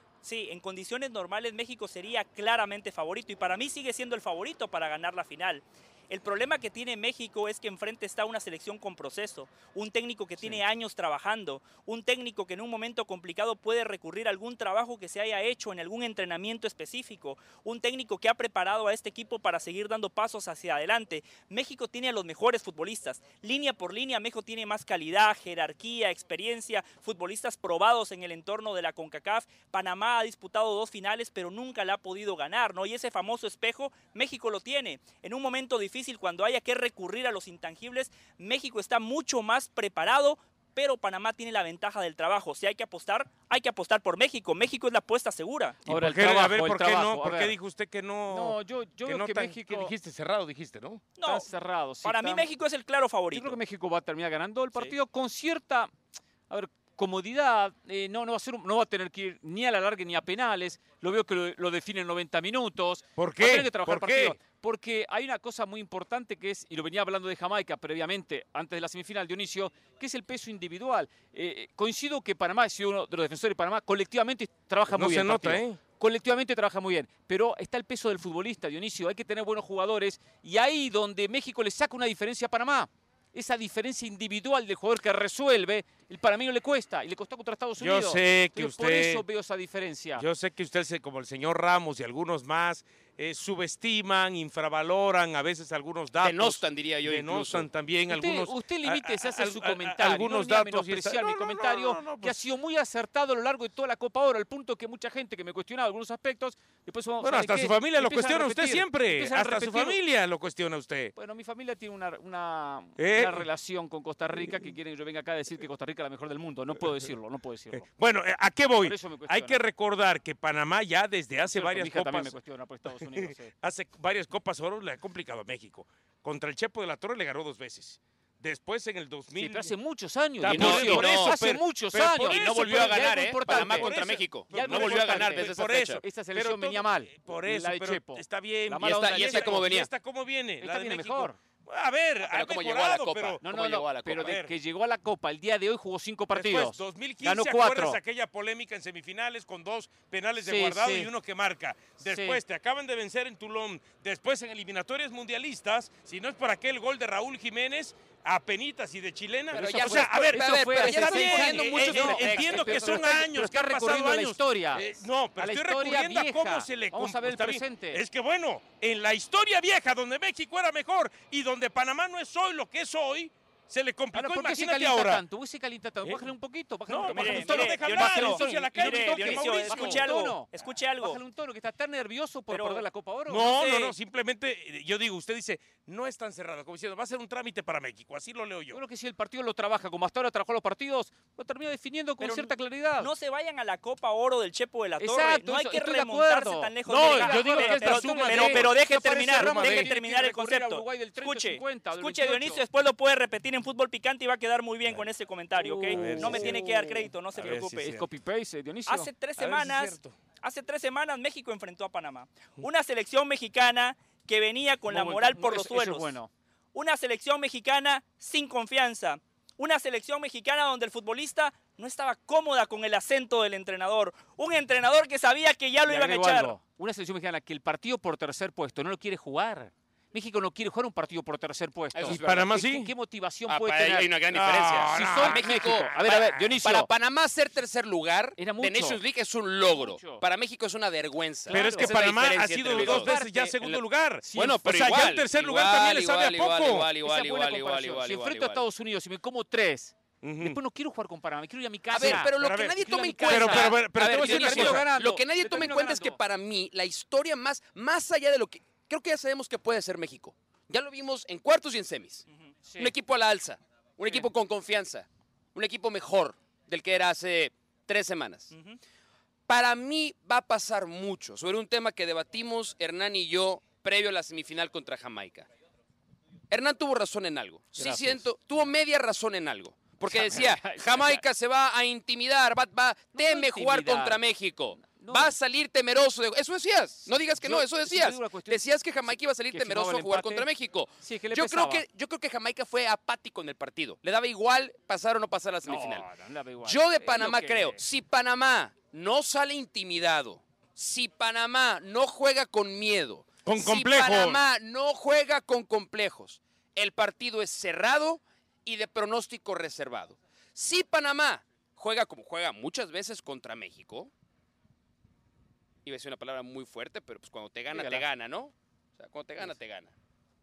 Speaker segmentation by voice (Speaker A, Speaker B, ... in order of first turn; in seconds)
Speaker A: 0.2-45.8, 51.2-51.5, 52.0-53.6, 177.1-181.2, 182.5-183.9, 192.2-207.9, 208.9-216.2, 216.7-226.6, 268.5-268.8
Speaker B: 45.9-47.5, 48.3-49.9, 51.2-52.5, 53.3-55.9, 56.5-90.2, 98.1-110.0, 111.2-117.9, 118.8-119.6, 121.4-123.5, 129.4-133.9, 134.5-139.7, 140.6-141.4, 143.4-148.0, 150.4-151.1, 152.0-152.4, 159.7-168.0, 174.1-180.5, 181.0-183.6, 188.7-193.1, 195.0-202.6, 205.6-206.6, 207.8-209.1, 214.9-216.3, 225.9-234.2, 234.9-236.9, 238.4-239.0, 239.7-240.2, 241.5-242.0, 242.7-243.6, 244.2-244.6, 247.0-256.2, 262.7-262.9, 277.8-278.2, 280.1-281.2, 283.1-284.2, 284.8-285.3, 287.1-288.7, 289.5-290.5, 291.0-291.8, 295.6-297.8, 317.7-318.1
Speaker C: 45.9-51.0, 63.2-64.4, 74.9-75.8, 87.8-89.2, 90.2-102.4, 107.2-111.1, 113.0-113.5, 117.8-122.4, 123.0-129.7, 130.4-143.4, 144.2-144.6, 146.3-175.2, 176.9-180.1, 183.3-188.8, 196.9-199.9, 205.9-208.1, 209.4-210.2, 232.1-232.9, 234.3-235.9, 241.5-246.9, 250.2-250.6, 252.0-254.8, 303.4-304.4
Speaker D: 96.2-97.7, 130.4-131.4, 131.9-136.0, 138.8-139.9, 142.2-144.4, 159.5-163.1, 231.9-232.5, 233.5-248.7, 251.9-262.2, 262.8-268.5, 269.5-275.5, 276.5-296.1, 296.6-314.1, 315.9-319.9